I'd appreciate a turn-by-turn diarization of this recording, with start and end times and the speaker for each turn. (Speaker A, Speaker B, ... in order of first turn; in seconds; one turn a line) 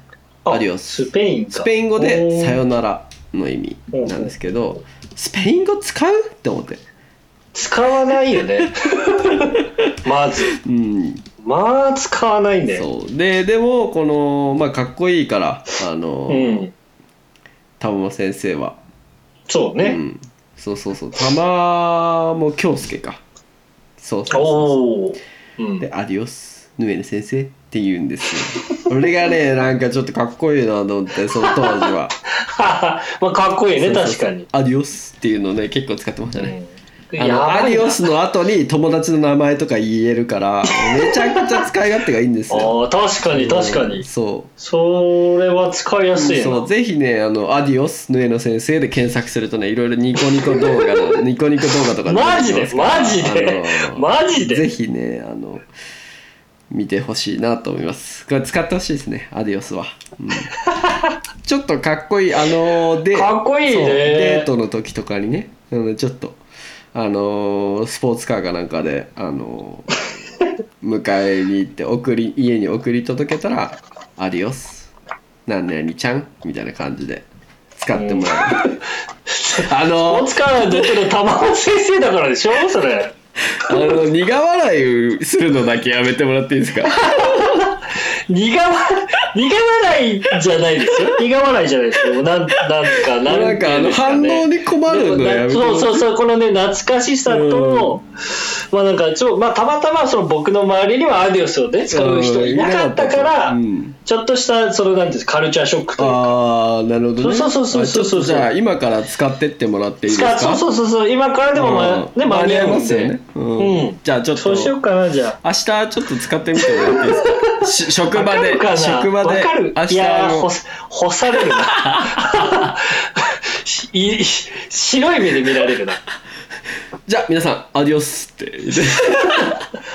Speaker A: 0.4-2.6
Speaker B: 0.5-6.8
Speaker A: 3.9-4.3
Speaker A: 7.5-10.5
Speaker B: 9.4-9.8
Speaker B: 10.5-11.2
Speaker A: 11.4-12.9
Speaker B: 12.7-16.6
Speaker A: 16.3-16.7
Speaker B: 17.8-18.8
Speaker A: 19.5-20.0
Speaker B: 19.8-23.2
Speaker B: 24.0-24.8
Speaker A: 24.3-25.8
Speaker B: 25.8-32.1
Speaker A: 31.4-31.8
Speaker A: 32.4-34.5
Speaker B: 33.8-36.5
Speaker A: 36.4-38.0
Speaker B: 37.2-42.8
Speaker A: 40.9-41.4
Speaker A: 42.5-44.0
Speaker B: 43.3-44.5
Speaker A: 44.6-46.7
Speaker B: 46.1-55.6
Speaker A: 52.0-54.6
Speaker B: 56.7-60.5
Speaker A: 60.7-61.1
Speaker B: 61.4-66.4
Speaker A: 63.1-64.5
Speaker B: 66.9-69.9
Speaker B: 70.8-74.9
Speaker B: 75.5-77.2
Speaker B: 77.8-78.7
Speaker A: 77.9-83.1
Speaker B: 79.6-81.0
Speaker B: 83.5-87.7
Speaker A: 86.9-106.3
Speaker B: 93.2-96.0
Speaker B: 97.3-98.0
Speaker B: 101.9-104.0
Speaker B: 106.0-110.6
Speaker A: 107.2-108.5
Speaker A: 110.1-115.4
Speaker B: 111.5-114.8
Speaker B: 115.4-120.5
Speaker A: 116.6-126.0
Speaker B: 121.8-122.2
Speaker B: 127.1-129.6
Speaker A: 129.1-129.6